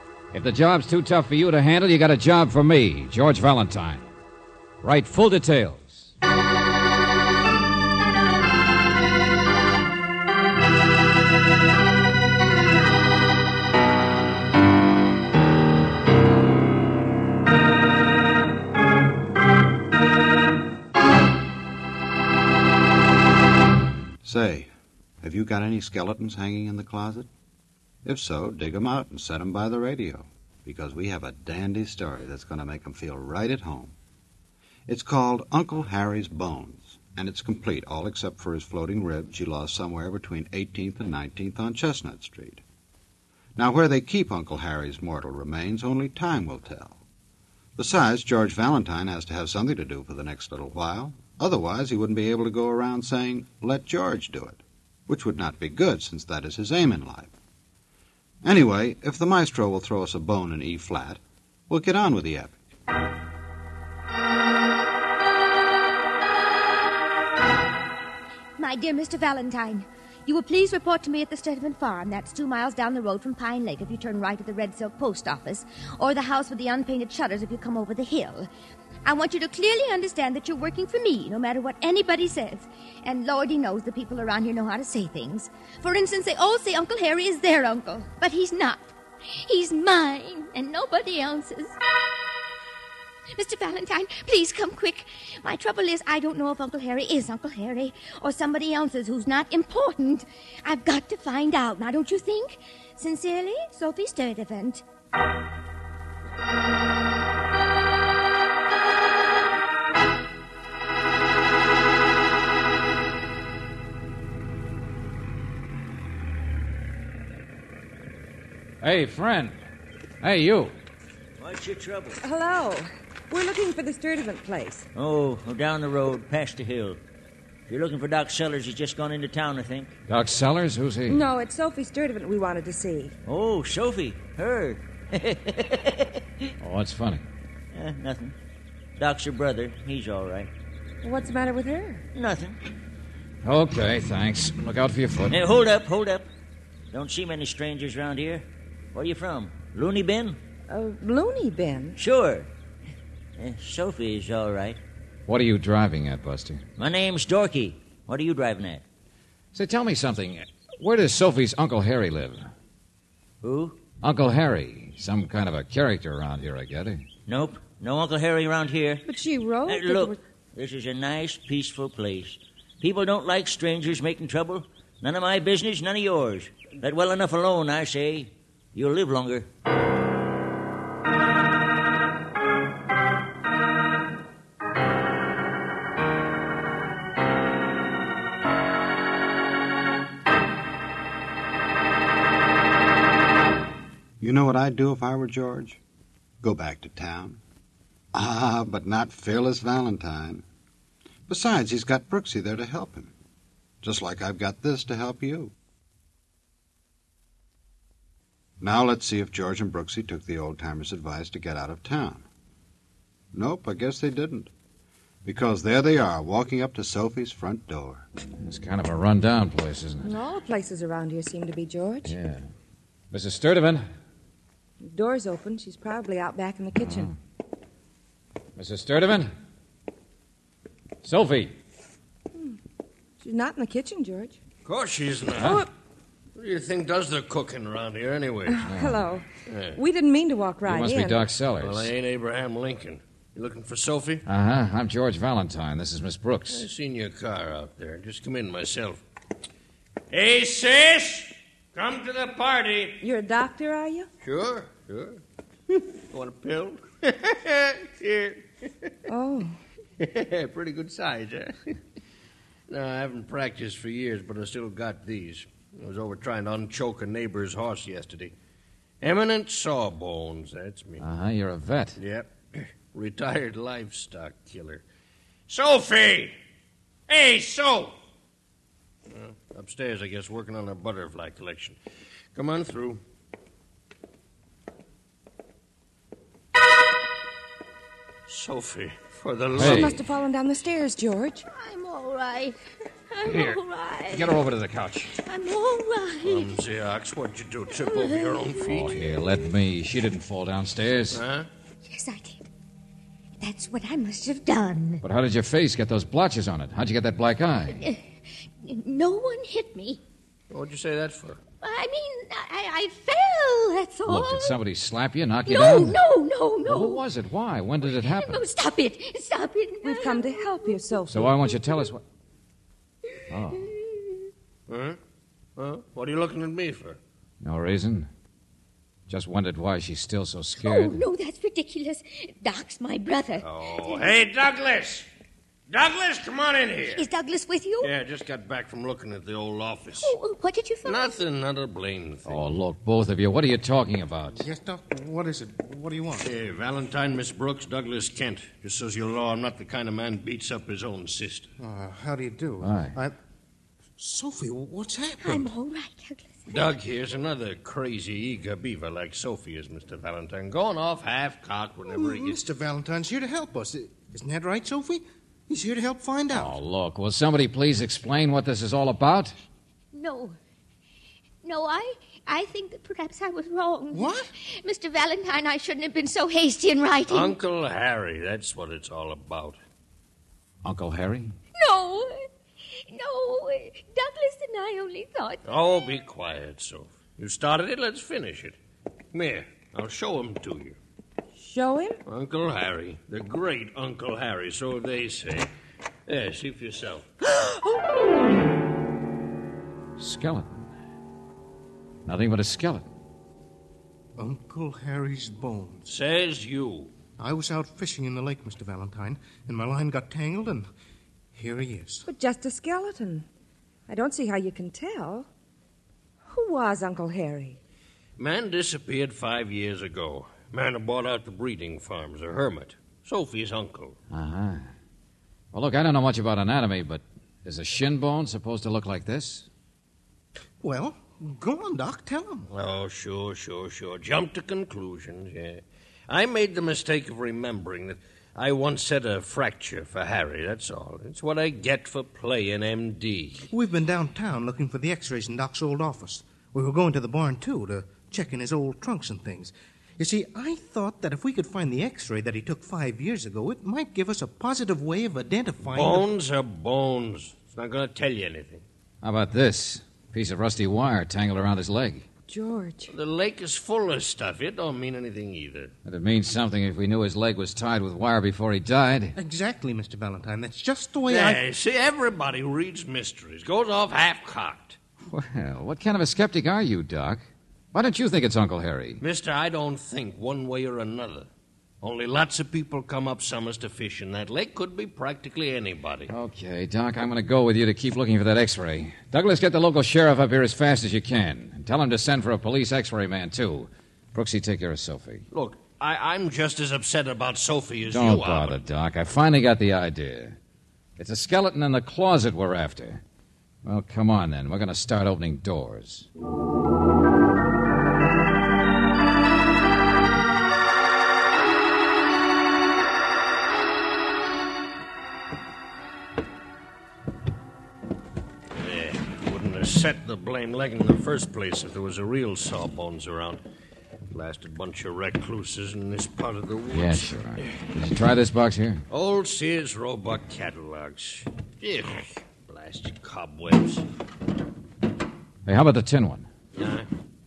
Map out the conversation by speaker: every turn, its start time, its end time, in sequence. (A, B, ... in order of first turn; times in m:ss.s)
0:00.3-0:04.1 A
0:04.8-0:06.1 A
0:24.2-0:24.7 B
0:25.2-0:27.3 B
0:28.0-0:34.0 B
0:34.9-0:42.6 B
0:43.6-0:47.0 B
0:47.8-0:57.3 B
0:58.4-1:02.6 B
1:08.6-1:18.5 C
1:19.0-1:28.9 C
1:29.4-1:31.8 C
1:33.4-1:44.8 C
1:58.8-1:59.6 A
2:00.2-2:00.7 A
2:01.4-2:02.2 D
2:02.2-2:04.8 E
2:05.0-2:07.0 D
2:07.7-2:10.0 D
2:10.1-2:11.2 A
2:11.1-2:13.1 E
2:13.3-2:16.5 D
2:16.6-2:17.2 A
2:17.7-2:18.3 D
2:19.0-2:20.5 D
2:21.0-2:22.0 E
2:22.1-2:22.6 D
2:23.4-2:25.4 A
2:25.3-2:26.3 D
2:26.9-2:30.4 D
2:30.7-2:32.0 E
2:32.0-2:32.5 D
2:33.4-2:34.8 D
2:35.3-2:36.6 A
2:36.8-2:38.8 D
2:39.5-2:42.5 A
2:43.4-2:43.8 D
2:44.0-2:47.0 A
2:47.3-2:49.1 D
2:49.1-2:50.2 E
2:49.7-2:59.5 D
3:14.2-3:15.8 B
3:16.4-3:17.4 B
3:18.1-3:20.4 B
3:21.3-3:23.1 B
3:23.8-3:25.5 B
3:28.6-3:32.2 B
3:33.3-3:34.5 B
3:35.2-3:38.1 B
3:38.4-3:40.2 A
3:40.0-3:42.1 E
3:42.0-3:42.4 A
3:43.1-3:43.9 A
3:44.8-3:47.1 E
3:46.8-3:47.1 A
3:48.6-3:49.3 A
3:51.0-3:51.5 A
3:53.2-3:54.4 E
3:54.6-3:55.6 F
3:55.3-3:55.7 E
3:56.4-3:58.7 F
3:58.5-4:01.2 E
3:58.7-3:59.0 A
3:59.5-3:59.8 F
4:00.7-4:01.9 A
4:01.6-4:04.2 F
4:04.3-4:06.6 A
4:06.5-4:09.0 F
4:10.1-4:13.0 F
4:13.0-4:14.1 E
4:14.2-4:15.2 F
4:16.1-4:18.9 F
4:19.1-4:19.6 E
4:20.0-4:21.8 F
4:22.7-4:28.3 F
4:29.0-4:31.0 F
4:31.0-4:32.0 A
4:32.0-4:34.8 F
4:35.5-4:36.3 F
4:37.1-4:38.0 F
4:39.1-4:41.8 F
4:42.4-4:43.0 F
4:48.3-4:50.0 F
4:49.6-4:51.4 E
4:49.6-4:50.0 A
4:51.5-4:52.6 C
4:53.1-4:54.4 C
4:53.2-4:53.6 A
4:54.1-4:55.1 A
4:55.2-4:56.5 C
4:56.2-4:59.0 F
4:57.8-4:58.6 C
4:58.6-5:01.2 A
5:01.1-5:01.5 F
5:01.9-5:02.4 C
5:03.4-5:05.0 C
5:05.0-5:07.8 A
5:07.8-5:08.0 C
5:08.6-5:10.0 C
5:10.5-5:11.4 F
5:11.6-5:14.6 C
5:14.1-5:16.0 A
5:15.5-5:17.0 C
5:16.7-5:18.4 A
5:17.8-5:20.8 C
5:19.8-5:21.4 E
5:21.1-5:22.0 A
5:23.3-5:23.7 A
5:23.6-5:24.3 C
5:24.7-5:25.0 F
5:25.6-5:27.0 F
5:27.4-5:28.1 A
5:29.1-5:31.0 A
5:30.6-5:34.1 C
5:33.4-5:35.1 F
5:35.7-5:37.0 F
5:36.9-5:37.9 C
5:37.8-5:40.2 F
5:40.0-5:41.2 C
5:40.8-5:42.5 F
5:42.3-5:44.5 A
5:44.4-5:46.3 G
5:46.2-5:51.5 F
5:51.6-5:53.2 G
5:52.6-5:53.0 A
5:54.0-5:55.5 G
5:55.2-5:56.6 C
5:56.5-6:02.4 F
6:01.9-6:06.6 G
6:06.3-6:09.3 A
6:09.9-6:10.4 C
6:11.4-6:17.4 C
6:13.9-6:14.3 G
6:17.1-6:19.6 F
6:20.6-6:21.3 A
6:21.6-6:22.3 C
6:22.9-6:25.4 C
6:25.4-6:28.6 F
6:29.1-6:30.8 F
6:31.4-6:32.0 E
6:32.1-6:35.5 F
6:36.1-6:37.1 F
6:37.3-6:37.8 E
6:40.0-6:40.6 A
6:42.1-6:42.9 A
6:44.2-6:45.8 G
6:45.9-6:46.9 F
6:47.2-6:50.7 G
6:51.3-6:52.1 G
6:52.1-6:53.2 E
6:53.9-6:55.3 E
6:56.3-6:57.6 E
6:58.2-7:04.0 F
7:04.1-7:04.7 A
7:05.5-7:09.5 A
7:10.6-7:12.5 G
7:12.5-7:23.5 F
7:23.5-7:36.1 G
7:35.7-7:38.6 F
7:39.0-7:42.1 A
7:42.3-7:42.9 E
7:42.9-7:45.7 F
7:45.8-7:49.2 A
7:49.2-7:51.4 G
7:51.1-7:54.8 F
7:55.1-7:57.2 A
7:57.7-7:59.0 A
7:59.0-8:01.3 F
8:01.8-8:06.1 F
8:06.1-8:15.2 A
8:15.3-8:18.6 F
8:17.9-8:20.4 A
8:21.0-8:23.0 A
8:23.6-8:26.1 A
8:38.5-8:43.4 F
8:44.1-8:47.6 F
8:46.7-8:48.8 A
8:48.9-8:53.8 F
8:55.5-8:56.3 A
8:56.6-8:56.9 F